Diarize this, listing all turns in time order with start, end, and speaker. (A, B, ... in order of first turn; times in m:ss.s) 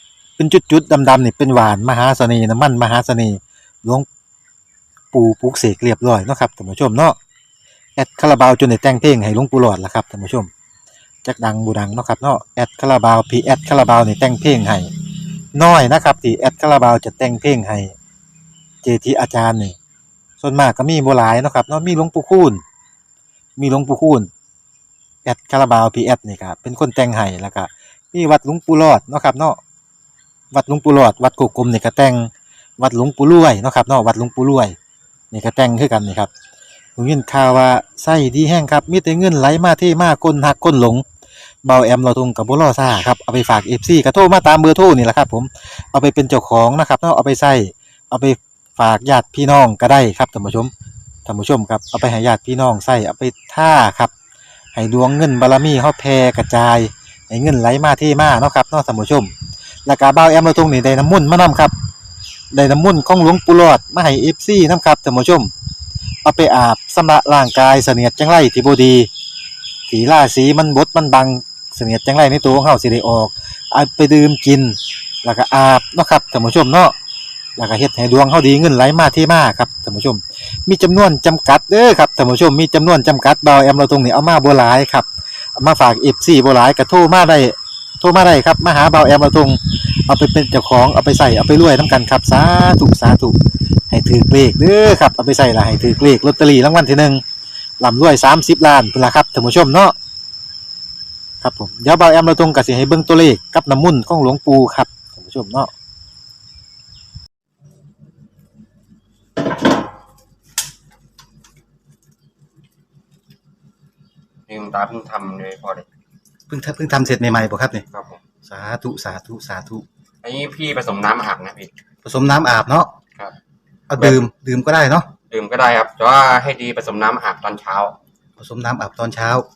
0:00.4-0:04.1 A
0:05.1-0:07.2 A
0:08.0-0:10.5 A
0:11.2-0:14.9 A
0:15.5-0:17.9 A
0:18.8-0:19.8 A
0:20.4-0:22.6 A
0:23.6-0:24.3 A
0:25.2-0:29.6 A
0:30.5-0:34.8 A
0:35.3-0:36.3 A
0:37.0-0:41.0 A
0:41.6-0:50.7 A
0:51.3-0:54.1 A
0:54.8-0:59.3 A
0:59.9-1:01.7 A
1:02.5-1:05.5 A
1:06.2-1:09.1 A
1:09.9-1:17.0 A
1:17.6-1:33.4 A
1:33.9-1:37.2 A
1:37.8-1:40.0 A
1:41.4-1:45.7 A
1:54.5-1:55.8 B
1:56.5-1:57.8 A
1:57.9-1:58.2 B
1:58.4-1:59.8 A
2:00.2-2:01.7 B
2:02.0-2:02.9 A
2:03.9-2:05.1 A
2:04.0-2:04.2 B
2:05.3-2:08.0 B
2:08.4-2:09.5 A